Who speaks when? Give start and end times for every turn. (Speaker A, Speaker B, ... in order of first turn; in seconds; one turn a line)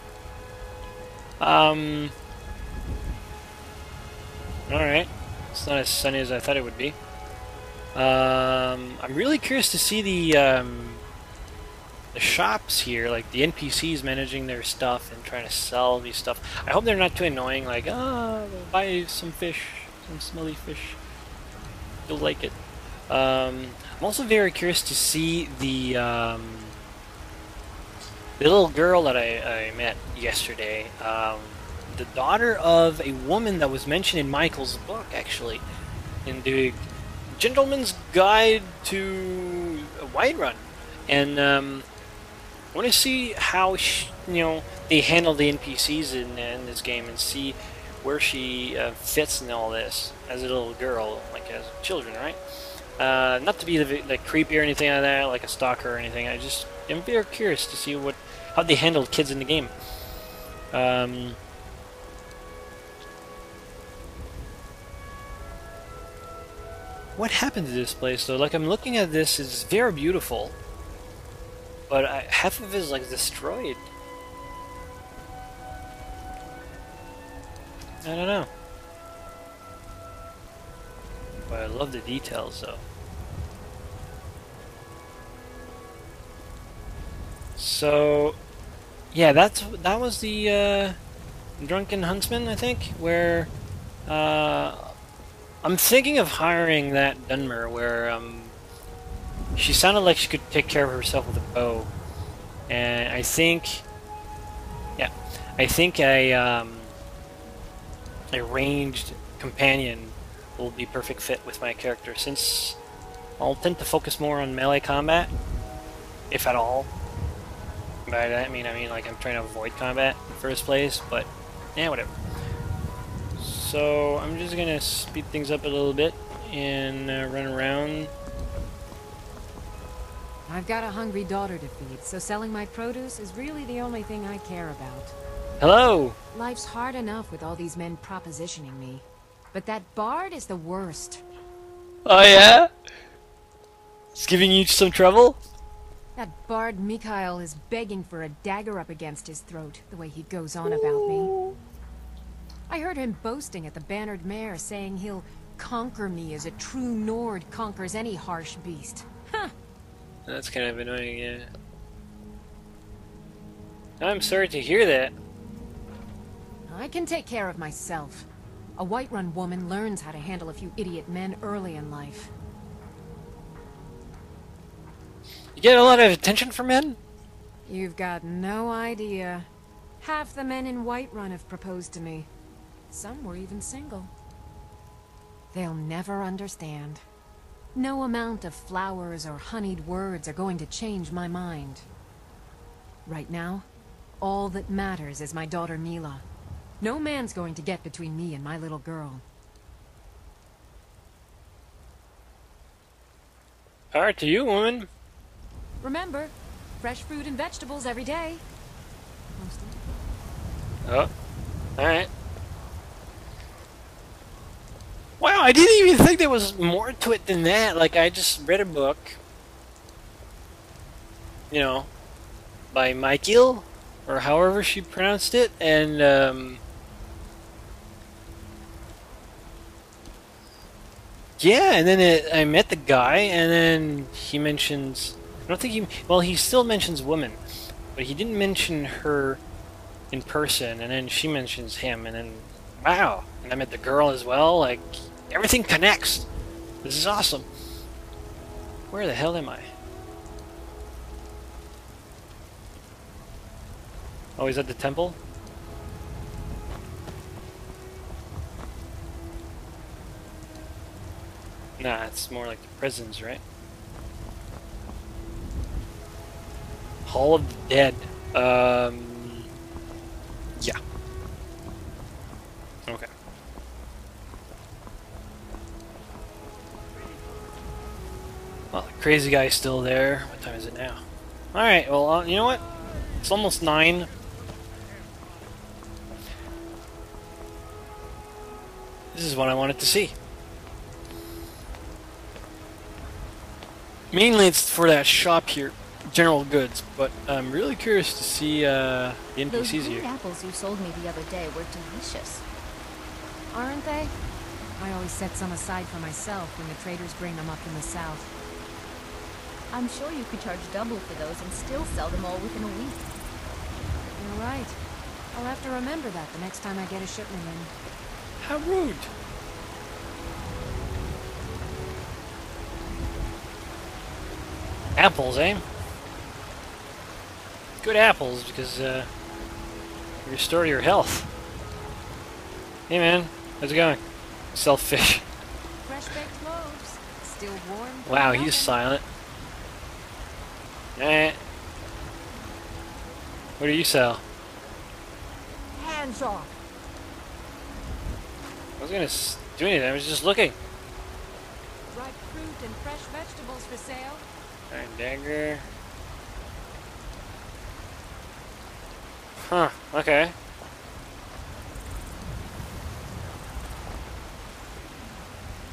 Speaker A: 1.4-2.1
Speaker A: 4.7-7.0
Speaker A: 8.0-11.0
Speaker A: 12.1-21.0
Speaker A: 22.1-22.6
Speaker A: 23.1-26.8
Speaker A: 28.4-35.6
Speaker A: 36.3-41.9
Speaker A: 42.7-52.4
Speaker A: 53.0-59.7
Speaker A: 60.7-61.4
Speaker A: 67.2-70.6
Speaker A: 71.9-73.9
Speaker A: 78.0-78.5
Speaker A: 81.5-82.8
Speaker A: 87.6-88.4
Speaker A: 89.1-91.0
Speaker A: 91.6-93.5
Speaker A: 94.1-95.0
Speaker A: 95.6-98.6
Speaker A: 99.6-101.9
Speaker A: 102.7-103.8
Speaker A: 105.0-106.9
Speaker A: 108.3-112.8
Speaker A: 113.4-115.3
Speaker A: 116.3-116.9
Speaker A: 118.1-122.1
Speaker A: 123.4-128.1
Speaker B: 130.5-135.1
Speaker A: 135.6-136.2
Speaker B: 136.3-141.2
Speaker A: 142.1-142.7
Speaker A: 144.1-145.4
Speaker B: 146.2-151.3
Speaker A: 150.7-151.6
Speaker B: 152.7-159.5
Speaker A: 160.3-161.5
Speaker A: 164.0-165.2
Speaker B: 166.7-172.3
Speaker A: 175.6-177.0
Speaker B: 177.7-179.5
Speaker B: 180.0-182.3
Speaker B: 182.9-184.1
Speaker B: 185.5-187.0
Speaker B: 187.8-191.8
Speaker B: 193.1-193.7
Speaker B: 194.2-196.2
Speaker B: 196.8-199.2
Speaker A: 203.9-204.9
Speaker B: 205.8-208.4
Speaker B: 209.4-209.8
Speaker A: 211.8-212.1
Speaker A: 215.2-219.2
Speaker A: 221.5-221.9
Speaker A: 222.7-226.6
Speaker A: 231.4-237.4
Speaker A: 237.9-239.4
Speaker A: 240.1-246.3
Speaker A: 246.8-247.5
Speaker A: 248.9-249.7
Speaker A: 254.4-255.2
Speaker A: 261.8-263.4
Speaker A: 267.1-269.5
Speaker A: 278.7-281.0
Speaker A: 281.5-282.6
Speaker A: 283.2-284.1
Speaker A: 289.1-290.1
Speaker A: 294.1-300.1
Speaker C: 299.5-302.4
Speaker B: 303.5-304.1
Speaker B: 304.8-308.3
Speaker C: 309.7-313.1
Speaker B: 314.2-314.8
Speaker B: 315.3-317.7
Speaker A: 318.4-319.1
Speaker A: 325.0-325.6
Speaker A: 327.8-329.1
Speaker A: 330.2-331.3
Speaker A: 332.9-334.0
Speaker A: 334.5-335.3
Speaker B: 335.8-338.8
Speaker A: 338.1-339.0
Speaker A: 341.0-341.4
Speaker A: 343.6-344.2
Speaker B: 345.8-346.5
Speaker A: 348.8-350.6
Speaker B: 351.9-354.2
Speaker A: 354.7-355.7
Speaker A: 359.5-360.3